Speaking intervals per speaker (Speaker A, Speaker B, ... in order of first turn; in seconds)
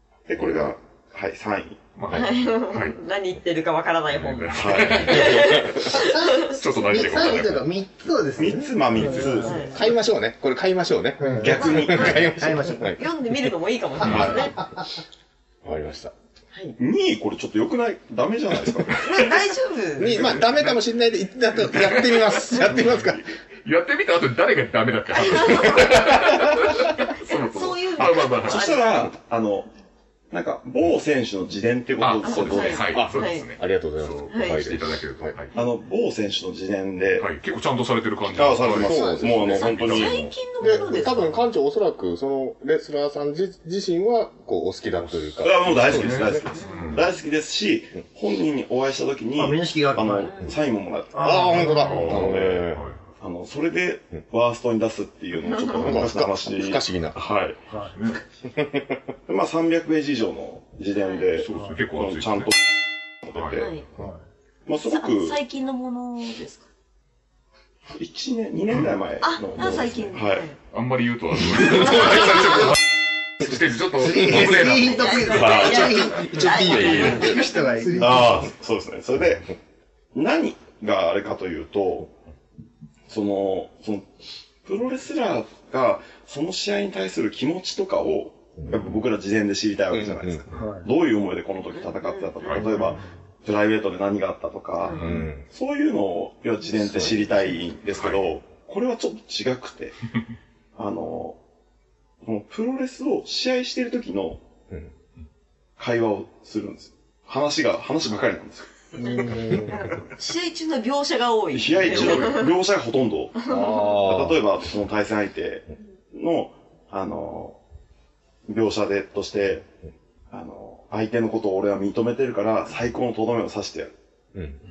Speaker A: 0.3-1.9, 4.5-5.4, 8.4-9.8, 11.4-12.4, 16.8-19.4, 28.0-29.7, 30.3-33.0, 35.5-37.3, 38.2-40.3, 45.4-57.6, 59.3-62.5, 63.2-63.8, 64.7-65.4, 67.9-70.5, 75.2-76.1, 78.0-79.5, 80.1-82.1, 83.1-84.1, 84.6-100.0, 100.8-101.4, 102.2-104.4, 105.8-108.7, 111.5-117.6, 118.5-119.7, 120.3-123.9
Speaker B: 1.9-3.0, 4.1-7.7, 9.0-9.3, 14.0-14.4, 20.2-20.6, 21.6-23.1, 23.6-28.8, 32.0-35.5, 37.2-40.3, 45.8-47.1, 51.8-53.0, 57.8-58.2, 61.4-62.5, 63.3-63.7, 70.6-72.8, 73.4-75.9, 76.8-77.2, 92.4-92.7, 94.9-95.2, 97.9-98.3, 111.9-112.3
Speaker C: 2.1-2.3, 5.1-5.8, 9.6-13.0, 14.0-14.4, 15.6-16.1, 20.0-23.3, 25.7-26.3, 32.9-35.3, 38.8-39.8, 40.6-46.4, 51.2-52.8, 55.8-57.2, 58.5-59.0, 76.3-77.5, 88.6-88.9, 89.9-90.4, 95.0-95.4, 96.8-97.2, 113.5-114.4
Speaker D: 2.1-6.6, 9.4-9.8, 11.6-14.6, 19.0-20.4, 25.1-29.1, 32.2-33.5, 34.3-34.7, 39.5-41.3, 46.5-47.0, 55.5-55.8, 63.5-63.8, 64.9-66.7, 69.2-70.5, 71.8-72.6, 74.7-78.0, 91.7-92.6, 109.0-112.5
Speaker E: 5.9-9.7, 11.2-13.0, 49.4-50.5, 51.1-52.1, 61.5-61.8, 74.0-78.5, 90.5-90.9, 92.6-93.0, 109.0-109.8